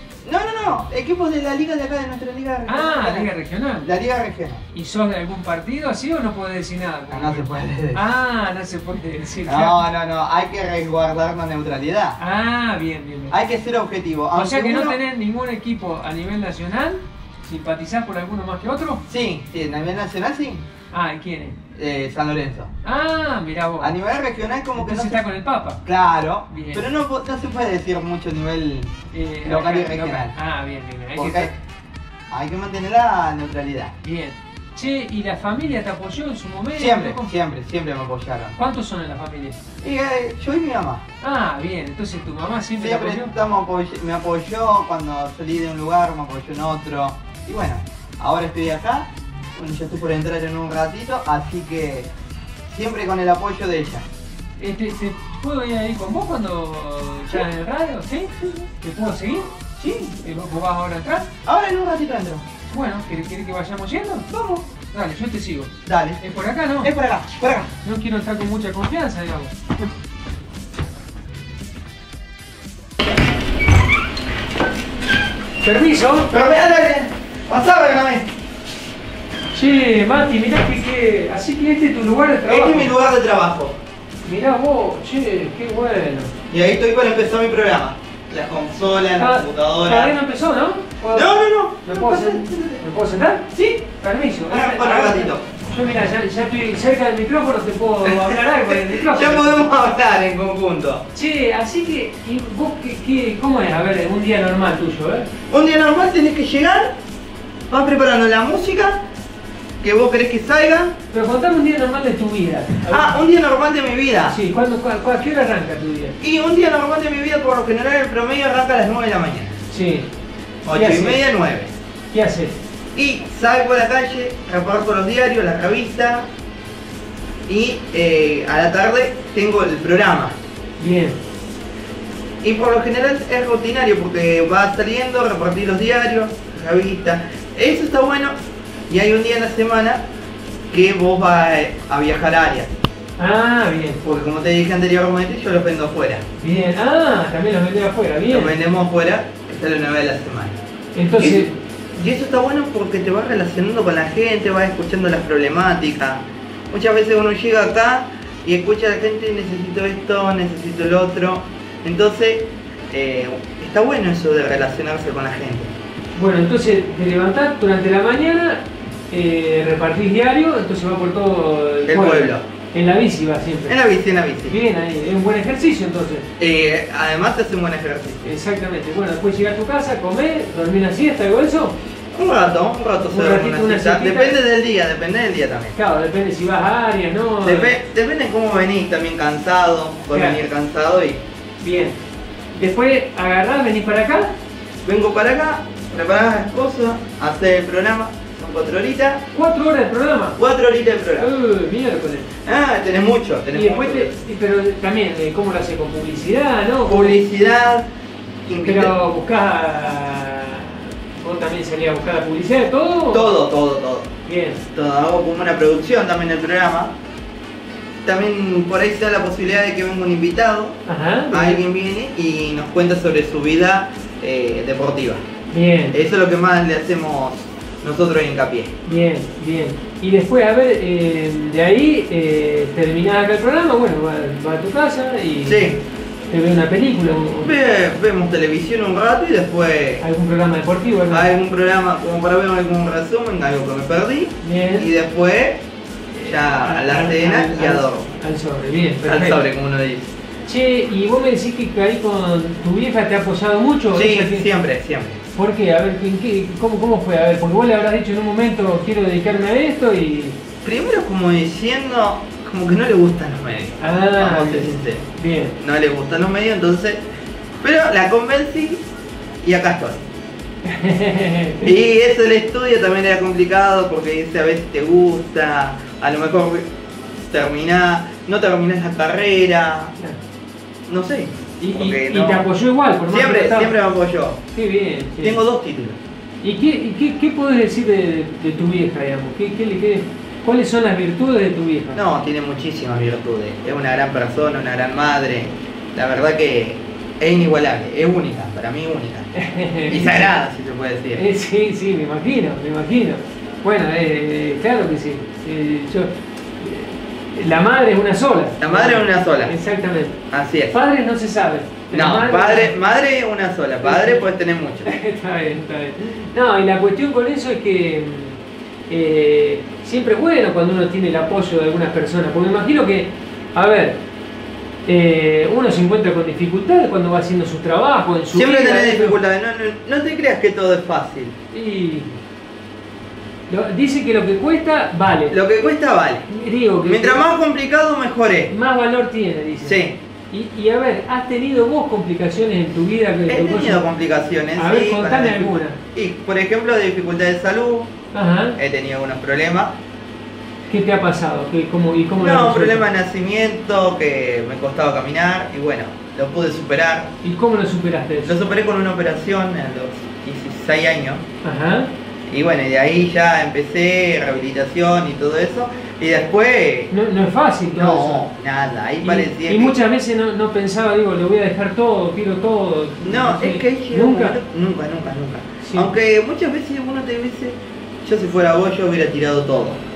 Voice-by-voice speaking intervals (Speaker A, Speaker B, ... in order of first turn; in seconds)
Speaker A: 0.2-3.3, 3.8-4.7, 7.1-8.0, 9.5-12.2, 13.3-15.0, 19.1-20.6, 21.8-22.7, 23.8-25.2, 25.9-28.9, 29.4-30.4, 31.1-31.5, 32.3-33.9, 36.8-38.5, 39.8-41.0, 42.8-52.1, 52.7-54.0, 58.3-58.7, 59.8-60.2, 61.5-62.5, 64.3-64.7, 65.8-66.2, 66.8-67.7, 76.3-78.3, 82.5-83.8, 86.5-90.2, 91.1-92.8, 93.5-93.8, 94.5-95.4, 98.0-101.0, 105.5-106.9, 107.7-109.0, 109.8-111.0, 112.8-114.4, 116.2-119.6, 120.7-121.7, 123.0-126.3, 127.5-130.3, 132.4-138.3, 138.9-140.0, 140.7-142.7, 144.0-146.2, 148.3-150.6, 151.2-165.7, 171.9-172.4, 173.7-174.6, 176.4-178.3, 182.1-185.8, 187.4-191.2, 194.8-199.2, 200.4-201.3, 202.5-204.2, 206.9-207.9, 208.5-208.9, 213.1-214.2, 214.7-216.9, 218.1-220.8, 221.3-225.2, 225.9-228.7, 235.4-235.8, 237.4-240.0, 241.1-245.6, 246.2-248.1, 249.0-250.1, 253.9-255.2, 260.6-265.0, 265.6-267.0, 267.6-268.8, 269.4-270.0, 271.6-276.6, 277.3-279.9, 280.9-282.5, 283.1-284.4, 285.2-286.0, 291.9-299.3, 299.9-301.2, 308.6-309.6, 310.3-310.8, 311.9-314.9, 328.3-331.4, 335.3-336.3, 336.8-338.5, 339.6-340.0, 343.3-347.9, 348.6-349.8, 352.2-357.1, 358.2-361.2, 362.3-366.9, 367.8-369.8, 373.0-379.8
Speaker B: 2.7-3.9, 4.7-9.8, 12.2-13.4, 14.3-19.0, 20.9-21.6, 22.9-23.9, 24.8-25.8, 26.5-26.9, 29.1-31.5, 34.0-37.3, 38.6-39.6, 41.2-43.3, 54.6-59.5, 60.2-61.3, 62.7-64.3, 64.9-66.9, 67.8-69.5, 75.6-76.3, 79.5-82.9, 84.2-86.3, 89.2-91.3, 91.8-99.7, 101.1-105.3, 111.1-113.2, 114.3-116.2, 119.7-120.1, 120.7-121.2, 122.1-122.6, 130.8-131.2, 143.2-144.0, 146.4-148.6, 150.9-151.5, 166.2-173.8, 174.5-176.3, 178.2-181.8, 183.1-184.3, 185.8-187.7, 190.1-190.4, 191.6-192.0, 192.6-194.3, 199.3-200.4, 201.2-202.3, 203.5-207.2, 208.6-213.3, 214.2-214.6, 220.9-221.6, 225.5-226.0, 228.8-235.8, 236.3-237.5, 240.0-241.3, 244.4-244.9, 246.1-249.4, 250.5-254.5, 255.3-260.4, 263.8-265.6, 270.6-271.7, 281.6-283.8, 284.5-285.4, 286.4-292.0, 299.4-300.3, 301.2-310.2, 310.7-312.7, 313.8-314.2, 314.9-324.0, 324.9-329.2, 331.5-332.2, 333.5-335.4, 336.3-337.2, 338.5-343.8, 344.6-345.8, 348.1-348.6, 350.7-352.9, 357.2-358.4, 361.4-361.9, 366.9-368.3, 369.0-374.4, 375.6-375.9